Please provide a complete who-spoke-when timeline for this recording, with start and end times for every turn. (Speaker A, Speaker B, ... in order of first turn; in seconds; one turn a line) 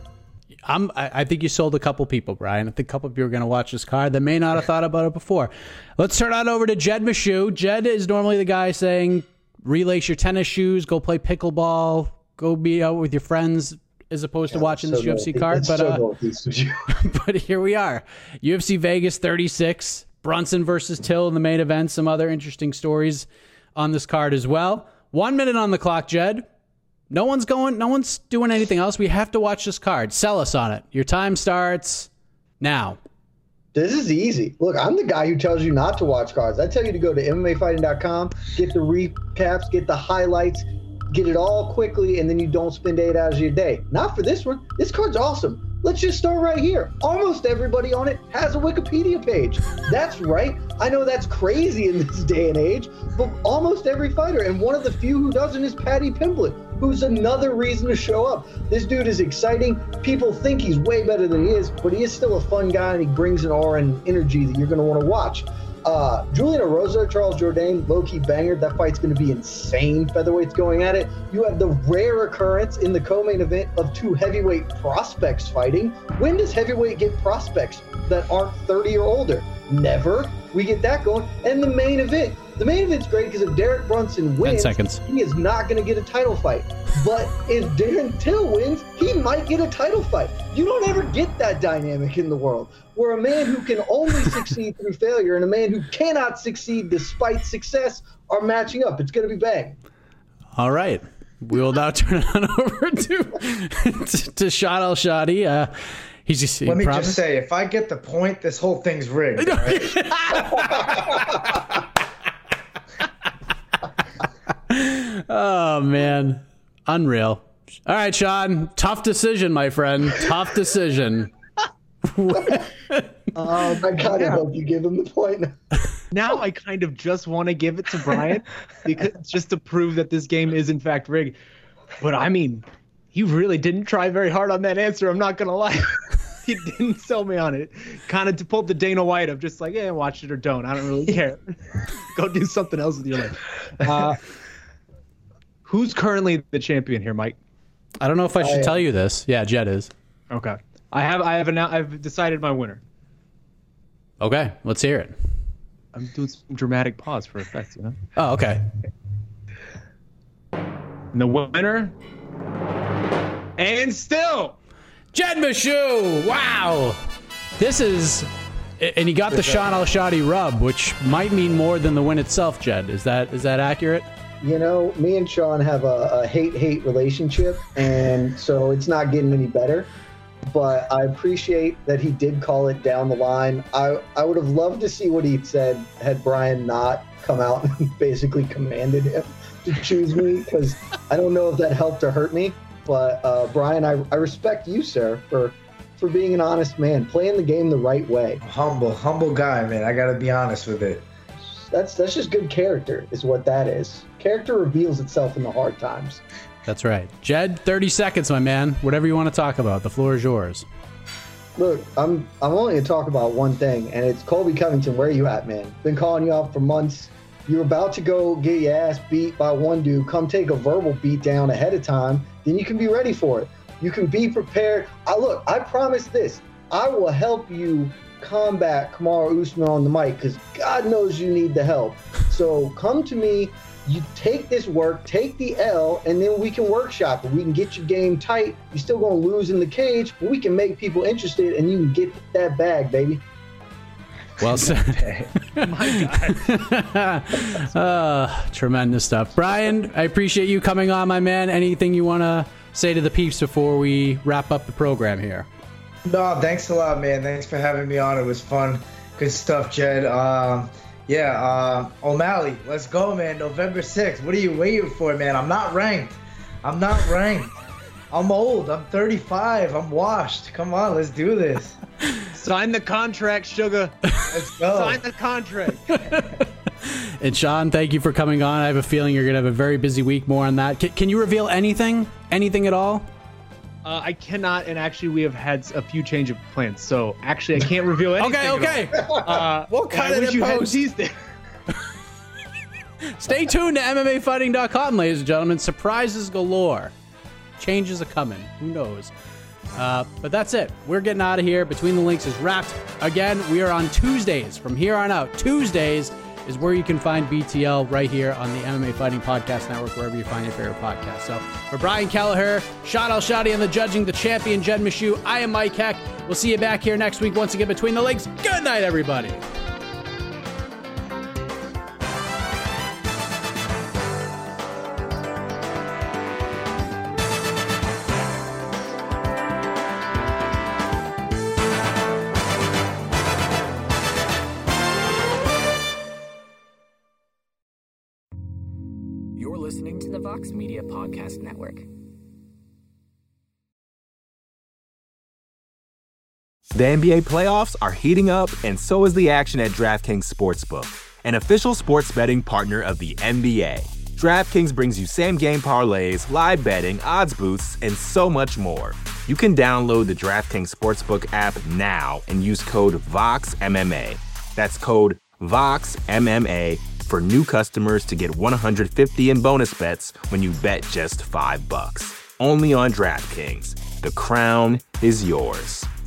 Speaker A: 0.7-16.0
Speaker B: 14.5-16.9
Speaker A: 16.9-26.4
Speaker A: 27.1-32.1
Speaker A: 32.6-33.0
Speaker B: 33.7-99.8
Speaker A: 84.4-85.0
Speaker A: 100.6-105.7
Speaker A: 106.2-107.2
Speaker C: 106.7-109.9
Speaker A: 109.4-111.6
Speaker A: 114.7-121.3
Speaker A: 122.0-123.1
Speaker B: 123.3-125.6
Speaker D: 124.0-124.4
Speaker D: 126.1-131.4
Speaker D: 132.0-144.2
Speaker D: 145.6-147.4
Speaker A: 148.0-149.9
Speaker B: 148.4-148.8
Speaker D: 150.3-152.8
Speaker A: 154.2-155.1
Speaker D: 155.9-158.0
Speaker A: 158.2-158.6
Speaker D: 161.1-161.9
Speaker D: 163.6-164.6
Speaker A: 165.1-167.0
Speaker A: 167.6-174.1
Speaker C: 169.3-169.7
Speaker B: 174.4-179.9
Speaker B: 180.5-198.4
Speaker C: 198.4-201.0
Speaker B: 201.5-206.2
Speaker A: 206.7-210.6
Speaker B: 211.6-243.2
Speaker C: 244.4-245.3
Speaker A: 244.4-255.5
Speaker D: 245.6-246.4
Speaker C: 256.0-267.5
Speaker C: 268.1-271.8
Speaker D: 272.3-273.9
Speaker C: 274.3-275.0
Speaker D: 274.7-275.9
Speaker A: 275.9-283.1
Speaker D: 283.8-291.1
Speaker A: 288.2-289.2
Speaker B: 289.1-290.8
Speaker A: 289.7-290.6
Speaker A: 293.1-296.9
Speaker A: 297.6-299.1
Speaker A: 299.7-319.4
Speaker E: 339.3-341.9
Speaker F: 346.7-375.9